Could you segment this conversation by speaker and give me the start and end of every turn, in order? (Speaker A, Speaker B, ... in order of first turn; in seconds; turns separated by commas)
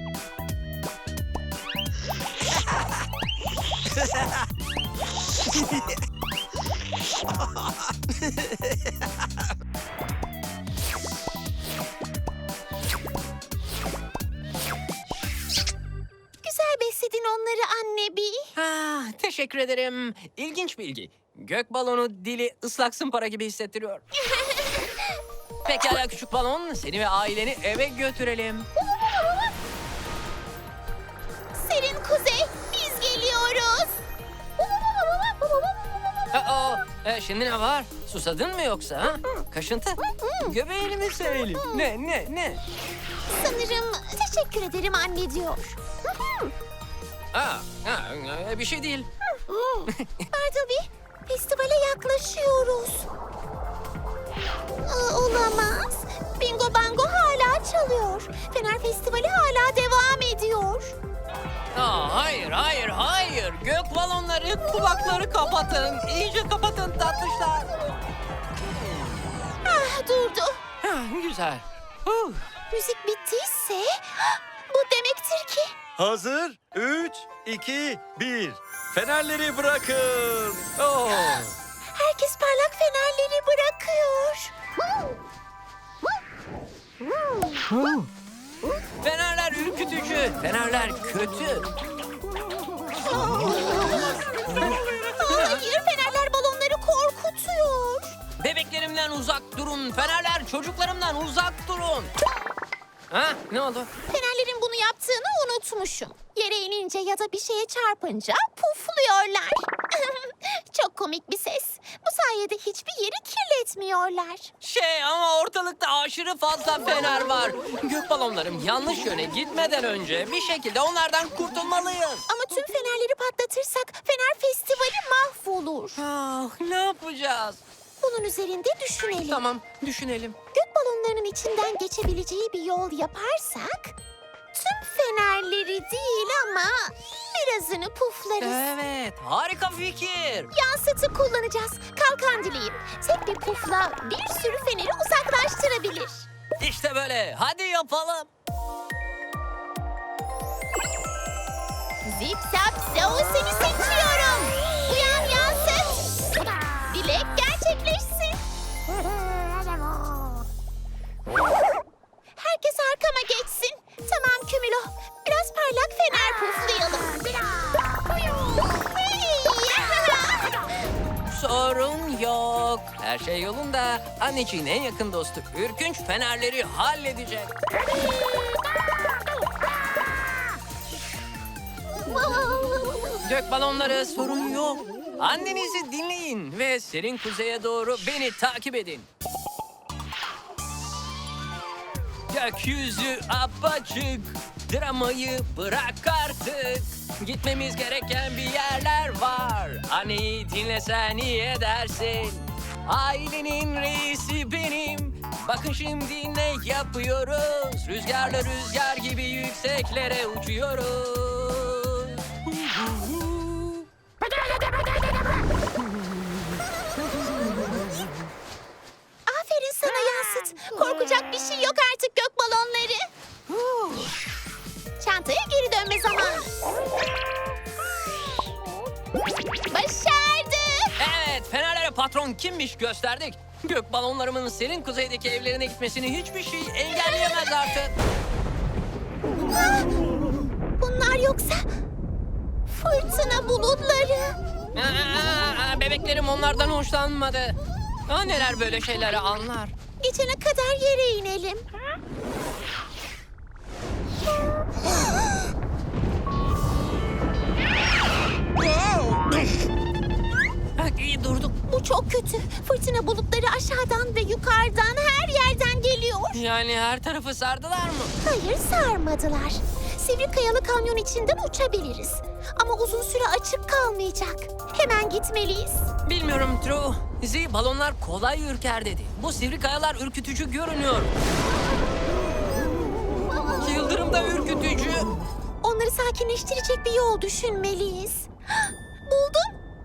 Speaker A: 16.4-18.5, Speaker B: 18.6-24.0, Speaker A: 24.2-24.9, Speaker B: 25.6-28.7, Speaker A: 31.5-34.0, Speaker B: 36.3-42.6, Speaker A: 40.2-40.5, Speaker A: 41.6-41.9, Speaker A: 43.3-45.8, Speaker B: 47.3-49.1, Speaker A: 49.5-53.1, Speaker B: 49.9-50.2, Speaker A: 54.8-60.9, Speaker B: 61.7-67.7, Speaker A: 69.6-70.6, Speaker B: 70.8-72.4, Speaker A: 72.7-75.8, Speaker C: 76.0-81.5, Speaker A: 81.9-84.5, Speaker B: 87.7-88.1, Speaker B: 89.0-91.7, Speaker A: 93.0-94.2, Speaker B: 94.6-95.6, Speaker A: 95.2-98.2, Speaker B: 98.4-102.1, Speaker B: 103.1-103.9, Speaker A: 104.1-114.5, Speaker B: 114.6-122.2, Speaker A: 122.3-126.0, Speaker B: 126.0-127.6, Speaker A: 128.0-129.4, Speaker B: 129.3-130.4, Speaker A: 130.5-133.9, Speaker A: 134.5-138.6, Speaker B: 138.4-140.5, Speaker A: 140.5-146.3, Speaker B: 146.6-148.3, Speaker A: 152.0-156.2, Speaker A: 156.9-158.4, Speaker A: 162.4-168.0, Speaker A: 168.7-170.5, Speaker B: 171.3-177.6, Speaker A: 182.0-183.1, Speaker B: 183.2-189.1, Speaker B: 192.3-213.8, Speaker A: 219.3-223.1, Speaker B: 223.5-224.1, Speaker A: 225.0-226.5, Speaker A: 229.7-231.0, Speaker B: 231.0-237.9, Speaker A: 239.5-239.8, Speaker A: 240.8-241.7, Speaker A: 242.7-244.4, Speaker B: 244.7-247.6, Speaker B: 248.1-249.7, Speaker A: 250.0-251.7, Speaker B: 260.8-261.5, Speaker A: 261.7-266.4, Speaker B: 266.3-268.1, Speaker A: 268.2-275.9, Speaker B: 276.1-281.1, Speaker B: 283.5-285.1, Speaker A: 285.6-289.5